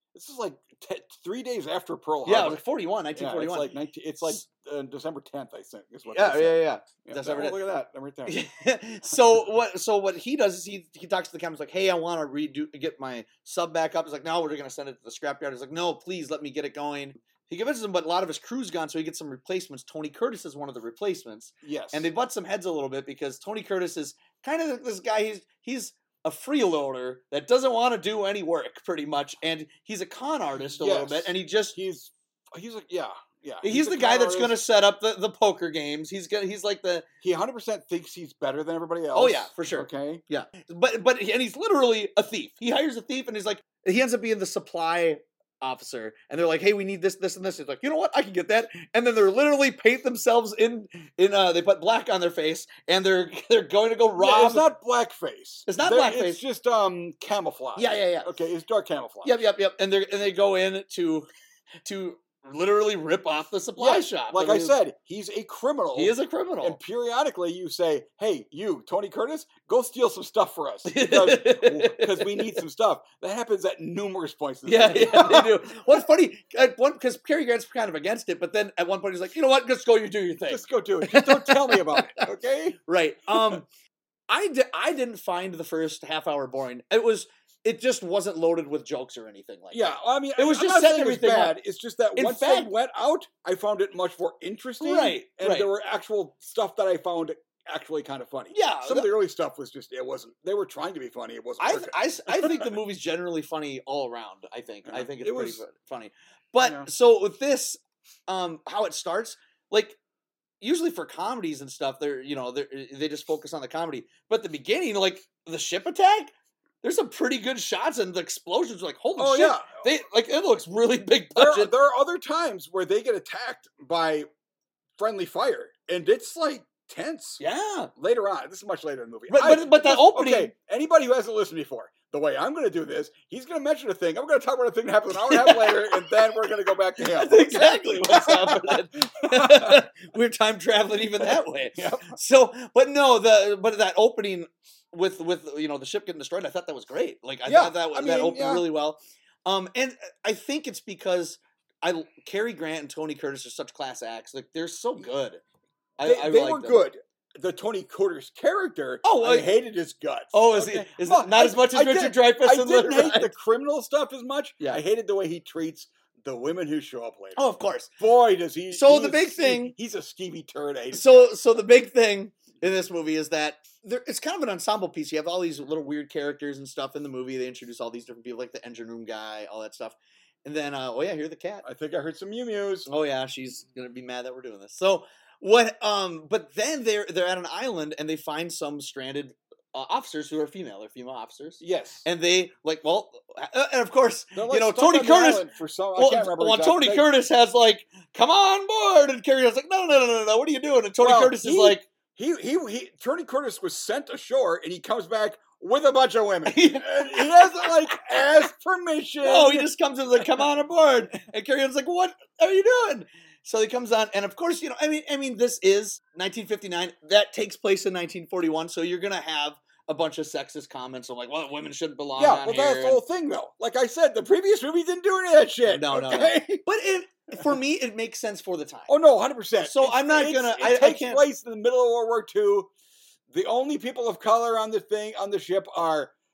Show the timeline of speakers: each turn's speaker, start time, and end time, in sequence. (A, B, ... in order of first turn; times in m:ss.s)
0:00.1-0:02.6 A
0:02.2-0:03.7 B
0:03.2-0:08.4 A
0:06.1-0:07.6 B
0:08.3-0:31.8 B
0:09.1-0:09.4 A
0:21.6-0:22.1 A
0:30.7-0:34.6 A
0:33.6-0:37.1 B
0:37.2-0:40.2 A
0:39.2-0:54.7 B
0:54.2-0:59.4 A
0:55.7-0:56.4 B
0:57.8-0:58.3 B
0:59.2-1:01.3 B
1:01.8-1:04.8 B
1:03.8-1:16.0 A
1:06.0-1:06.8 B
1:10.9-1:12.6 B
1:14.7-1:22.2 B
1:20.5-1:22.8 A
1:22.9-1:23.6 B
1:23.3-1:23.6 A
1:24.3-1:31.6 B
1:29.7-1:42.7 A
1:32.2-1:32.7 B
1:34.8-1:35.7 B
1:38.5-1:39.1 B
1:41.6-1:50.0 B
1:44.9-1:45.6 A
1:46.6-1:46.9 A
1:50.6-2:01.7 B
1:59.2-1:59.8 A
2:01.4-2:04.3 A
2:05.0-2:07.4 A
2:07.4-2:07.9 B
2:08.0-2:19.8 A
2:09.3-2:10.5 B
2:15.2-2:16.4 B
2:17.0-2:35.4 B
2:21.2-2:22.2 A
2:27.5-2:28.7 A
2:36.0-2:36.8 B
2:36.0-2:47.4 A
2:39.0-2:39.5 B
2:40.3-2:43.3 B
2:47.4-2:47.9 B
2:48.0-2:51.4 A
2:48.7-2:49.7 B
2:50.9-3:01.6 B
3:01.6-3:02.9 A
3:02.9-3:21.9 B
3:11.6-3:12.0 A
3:14.4-3:17.1 A
3:21.0-3:30.4 A
3:26.5-3:28.2 B
3:29.2-3:43.0 B
3:42.2-3:46.6 A
3:45.7-3:48.9 B
3:48.9-3:52.7 A
3:49.6-3:51.2 B
3:53.3-3:56.1 A